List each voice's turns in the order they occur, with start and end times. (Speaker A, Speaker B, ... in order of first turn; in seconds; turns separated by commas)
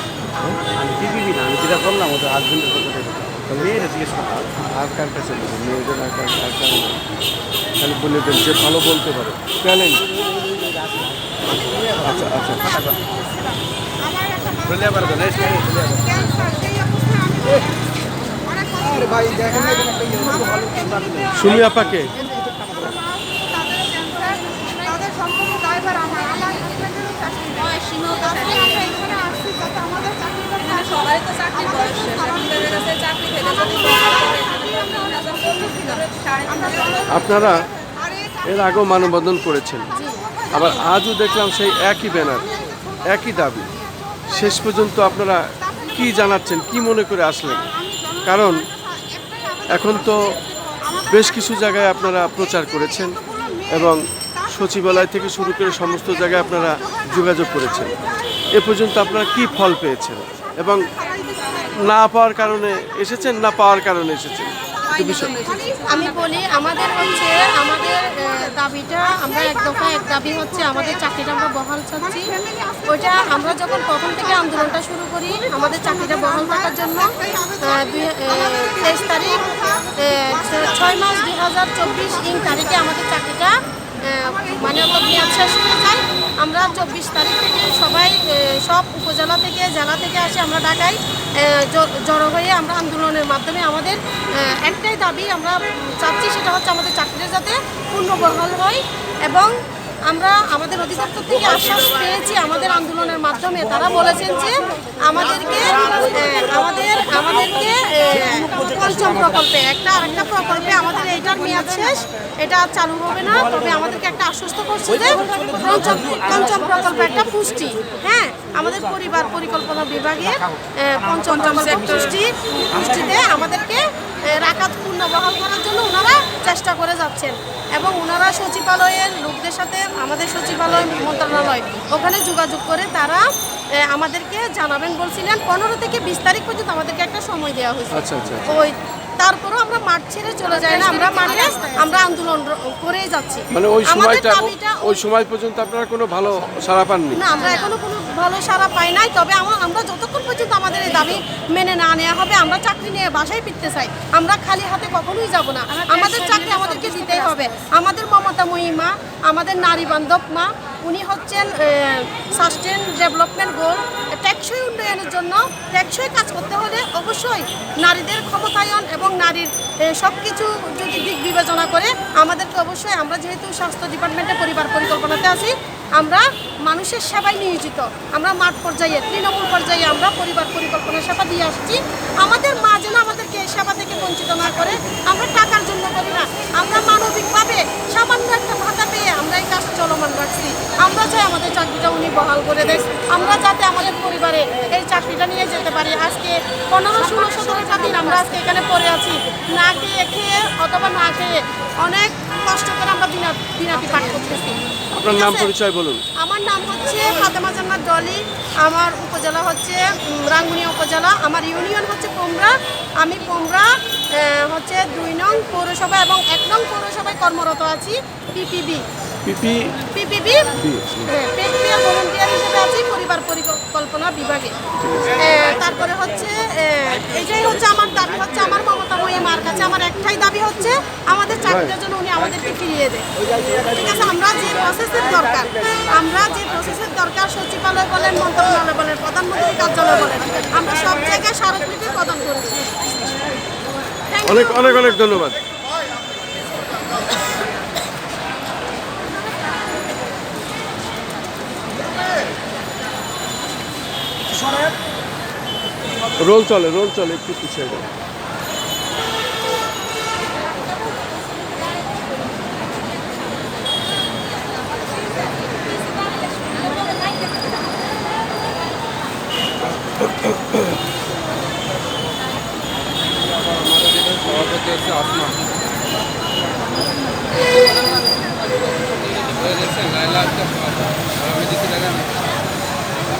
Speaker A: 0.8-3.5, Speaker B: 1.5-7.0, Speaker B: 7.8-10.0, Speaker C: 11.5-13.5, Speaker B: 12.0-12.8, Speaker C: 14.0-17.8, Speaker A: 14.8-15.8, Speaker C: 18.5-21.3, Speaker B: 21.3-22.1, Speaker C: 22.2-27.5, Speaker D: 27.5-29.4, Speaker C: 28.3-30.9, Speaker D: 30.6-37.1, Speaker C: 32.1-32.8, Speaker C: 33.4-35.9, Speaker C: 36.8-37.1, Speaker B: 37.1-37.6, Speaker C: 38.0-38.3, Speaker B: 38.4-40.0, Speaker E: 39.9-40.2, Speaker B: 40.5-43.7, Speaker B: 44.3-47.7, Speaker C: 47.8-48.2, Speaker B: 48.2-48.6, Speaker C: 48.8-49.7, Speaker B: 49.7-50.4, Speaker C: 50.7-51.0, Speaker B: 51.0-58.0, Speaker C: 53.3-53.7, Speaker B: 58.5-60.9, Speaker C: 61.0-61.7, Speaker B: 61.7-65.5, Speaker E: 65.0-72.3, Speaker D: 65.1-65.6, Speaker C: 72.5-72.8, Speaker E: 72.9-99.5, Speaker C: 77.2-77.5, Speaker C: 79.5-79.9, Speaker E: 100.1-133.2, Speaker E: 133.8-145.0, Speaker B: 137.9-138.6, Speaker B: 143.5-147.2, Speaker E: 147.2-205.5, Speaker B: 205.0-206.0, Speaker E: 206.2-218.8, Speaker B: 219.2-219.9, Speaker E: 219.9-220.5, Speaker B: 220.6-221.0, Speaker E: 221.1-224.5, Speaker B: 224.8-225.2, Speaker E: 225.2-242.7, Speaker B: 231.4-231.7, Speaker E: 244.1-245.0, Speaker B: 244.2-245.4, Speaker B: 256.2-257.9, Speaker B: 273.8-275.2, Speaker B: 279.4-280.7, Speaker B: 281.3-282.0